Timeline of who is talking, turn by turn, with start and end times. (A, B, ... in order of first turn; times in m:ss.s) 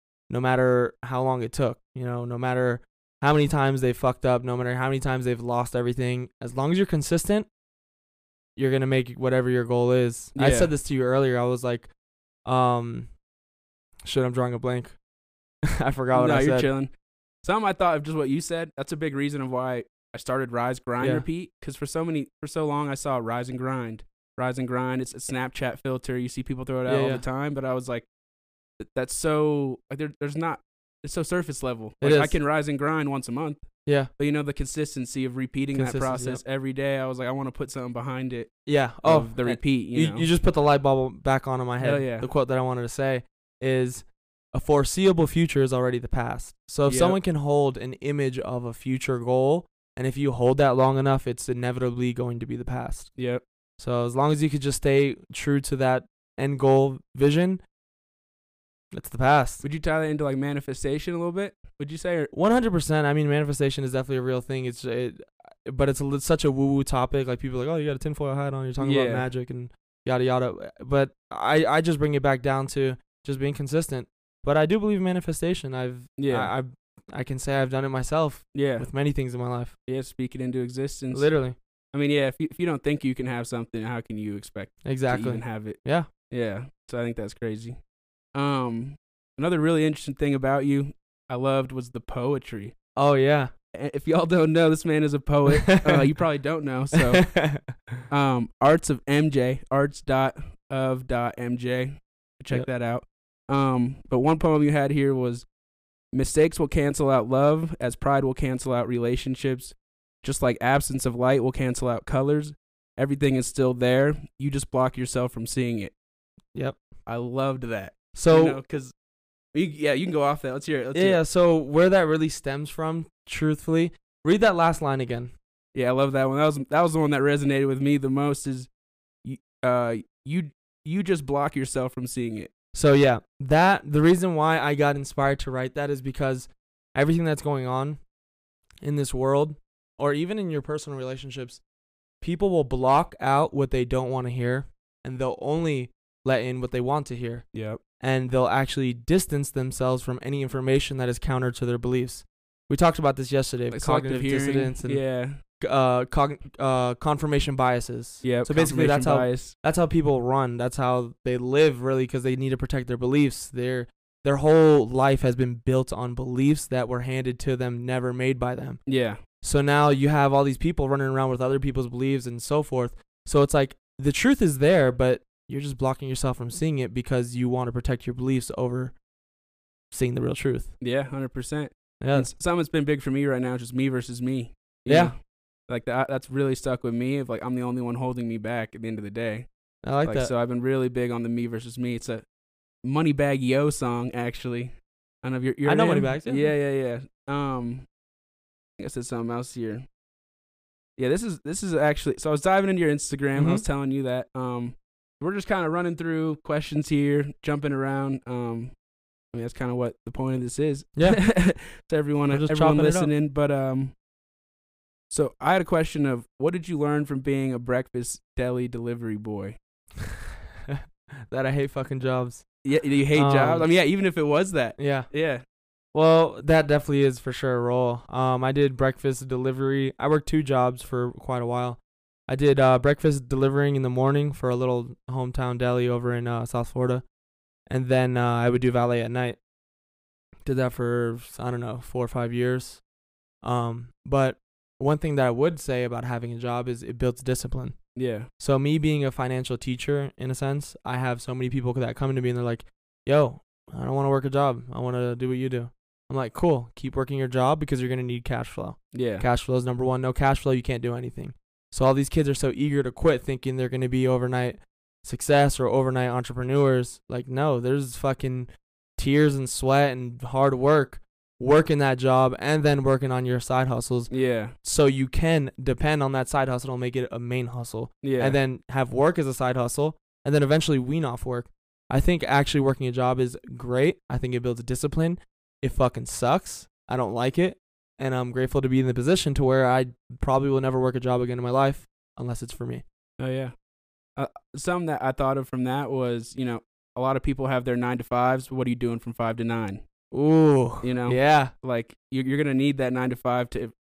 0:00.3-0:07.5 A
0:08.6-0:11.9 A
0:10.4-0:10.7 B
0:12.4-0:13.1 A
0:14.0-0:15.0 A
0:15.7-0:16.7 A
0:16.1-0:16.9 B
0:17.4-0:28.1 B
0:21.0-0:21.2 A
0:26.9-0:27.2 A
0:28.8-0:33.7 B
0:32.0-0:32.4 A
0:34.2-0:38.5 B
0:35.7-0:36.4 A
0:38.7-0:53.1 A
0:39.0-0:40.3 B
0:41.8-0:42.3 B
0:46.9-0:47.2 B
0:53.2-0:53.4 B
0:53.8-0:57.6 A
0:58.9-0:59.6 A
0:59.6-1:02.3 B
1:02.3-1:19.8 A
1:08.8-1:09.3 B
1:16.2-1:16.5 B
1:18.5-1:18.9 B
1:19.9-1:21.3 B
1:21.1-1:21.6 A
1:21.9-1:25.8 B
1:24.8-1:26.1 A
1:26.3-1:27.8 B
1:28.3-1:32.8 B
1:33.0-1:33.5 A
1:33.7-1:37.3 B
1:35.5-1:36.0 A
1:36.9-1:38.0 A
1:38.1-1:45.5 B
1:46.1-1:55.9 B
1:56.5-1:56.8 A
1:57.1-1:58.9 B
1:58.2-1:58.6 A
1:59.5-2:01.2 B
2:00.9-2:05.3 A
2:05.7-2:08.7 B
2:09.2-2:12.5 B
2:12.7-2:18.0 A
2:18.8-2:21.6 A
2:22.2-2:27.4 A
2:27.5-2:27.8 B
2:28.0-2:35.0 A
2:33.7-2:35.4 B
2:35.6-2:48.8 A
2:38.2-2:39.6 B
2:48.9-2:49.2 B
2:49.4-2:58.9 A
2:59.9-3:00.7 A
3:00.8-3:05.2 B
3:02.0-3:02.3 A
3:04.9-3:05.2 A
3:05.7-3:09.5 B
3:09.8-3:10.3 A
3:10.0-3:12.2 B
3:12.8-3:17.9 B
3:15.6-3:16.5 A
3:18.8-3:19.9 B
3:21.0-3:28.7 B
3:23.3-3:23.6 A
3:29.3-3:33.9 B
3:31.0-3:31.2 A
3:32.3-3:33.1 A
3:35.1-3:39.6 B
3:40.0-3:42.4 A
3:42.6-3:45.4 B
3:43.2-3:43.7 A
3:44.8-3:45.1 A
3:45.9-3:57.0 A
3:57.7-3:59.4 A
4:00.4-4:02.8 A
4:03.4-4:07.8 A
4:08.0-4:08.3 B
4:08.4-4:34.1 A
4:18.9-4:19.3 B
4:34.1-4:34.6 B
4:34.6-4:52.8 A
4:38.0-4:38.4 B
4:53.2-4:53.5 B
4:54.2-4:59.8 B
5:00.1-5:01.5 A
5:00.8-5:03.7 B